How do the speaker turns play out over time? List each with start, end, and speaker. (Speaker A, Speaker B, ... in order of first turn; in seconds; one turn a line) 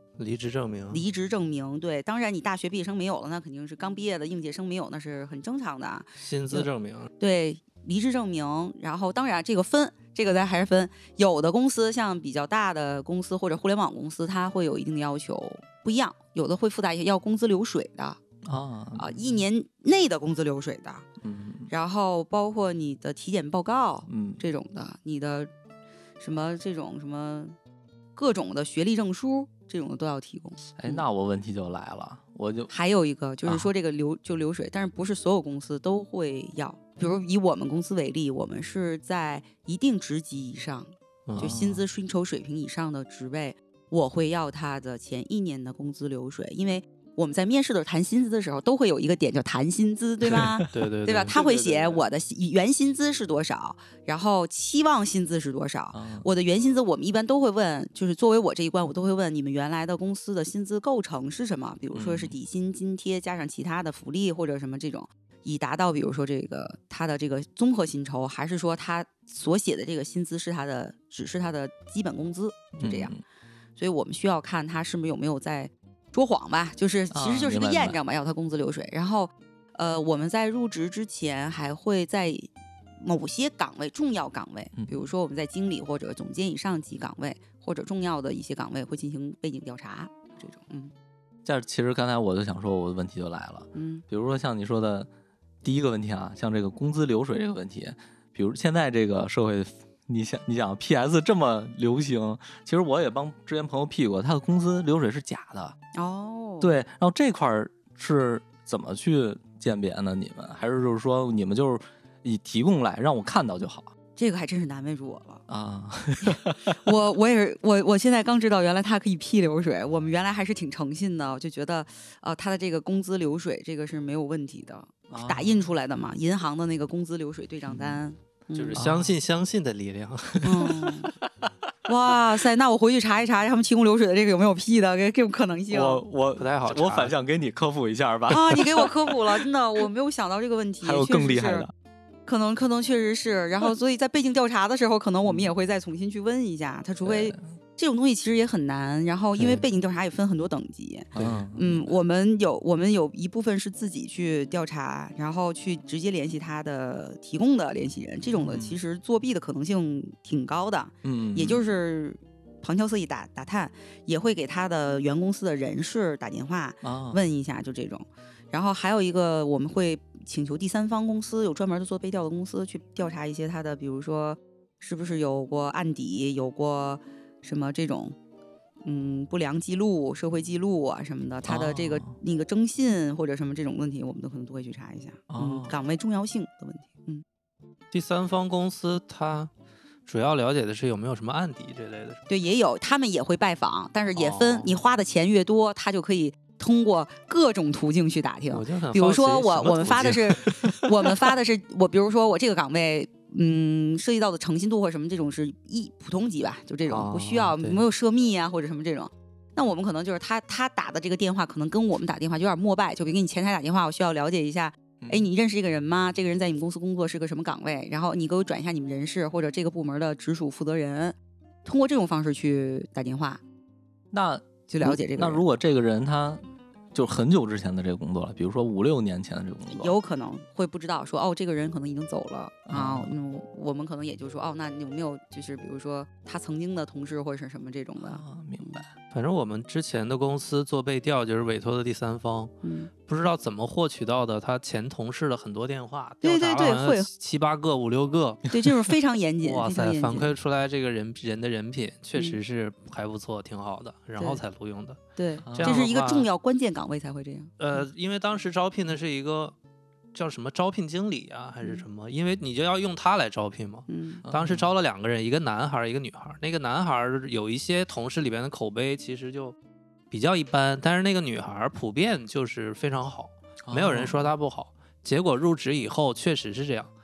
Speaker A: 0.2-1.0
Speaker B: 0.9-6.7
Speaker A: 6.2-7.1
Speaker B: 7.2-18.2
Speaker C: 18.4-19.4
Speaker B: 19.0-21.0
Speaker C: 21.2-21.7
Speaker B: 21.7-25.5
Speaker C: 24.1-24.4
Speaker B: 26.2-27.6
Speaker B: 28.1-31.0
Speaker C: 30.8-32.7
Speaker B: 32.7-73.1
Speaker A: 41.3-41.5
Speaker C: 41.4-41.8
Speaker C: 50.3-50.8
Speaker A: 50.7-52.0
Speaker C: 55.9-56.3
Speaker C: 61.9-62.4
Speaker C: 72.8-73.2
Speaker B: 73.8-90.9
Speaker C: 77.1-78.0
Speaker C: 84.7-85.1
Speaker C: 91.4-95.1
Speaker B: 93.7-94.0
Speaker C: 95.6-105.8
Speaker B: 105.9-106.8
Speaker C: 106.6-113.9
Speaker B: 114.2-115.4
Speaker C: 115.5-116.8
Speaker B: 116.2-128.8
Speaker C: 125.1-125.7
Speaker C: 127.7-128.0
Speaker A: 128.5-130.7
Speaker C: 128.7-129.2
Speaker B: 130.4-131.1
Speaker C: 130.5-131.5
Speaker B: 131.8-136.0
Speaker C: 135.7-139.2
Speaker A: 136.4-137.1
Speaker B: 138.3-141.7
Speaker C: 140.8-141.7
Speaker B: 142.2-178.2
Speaker C: 147.0-147.4
Speaker C: 151.1-152.0
Speaker A: 151.2-151.4
Speaker C: 158.3-158.8
Speaker C: 161.0-161.6
Speaker C: 166.8-167.2
Speaker B: 178.8-187.2
Speaker C: 181.5-182.1
Speaker C: 185.3-185.8
Speaker A: 187.9-189.5
Speaker A: 190.1-192.2
Speaker B: 192.3-223.4
Speaker A: 194.1-194.8
Speaker A: 198.5-200.4
Speaker C: 200.0-200.8
Speaker A: 206.9-207.8
Speaker C: 215.0-215.3
Speaker C: 224.1-226.4
Speaker B: 224.7-225.4
Speaker C: 226.9-229.9
Speaker B: 229.7-238.8
Speaker C: 232.7-233.1
Speaker C: 238.0-238.9
Speaker A: 239.1-242.5
Speaker B: 242.6-242.9
Speaker A: 243.0-248.5
Speaker B: 246.2-247.1
Speaker B: 248.5-250.3
Speaker A: 249.4-255.0
Speaker B: 255.2-257.8
Speaker C: 255.4-255.9
Speaker A: 255.5-256.3
Speaker A: 257.6-259.5
Speaker A: 260.1-269.5
Speaker B: 263.9-264.2
Speaker C: 264.2-264.7
Speaker A: 270.1-276.9
Speaker C: 273.6-274.3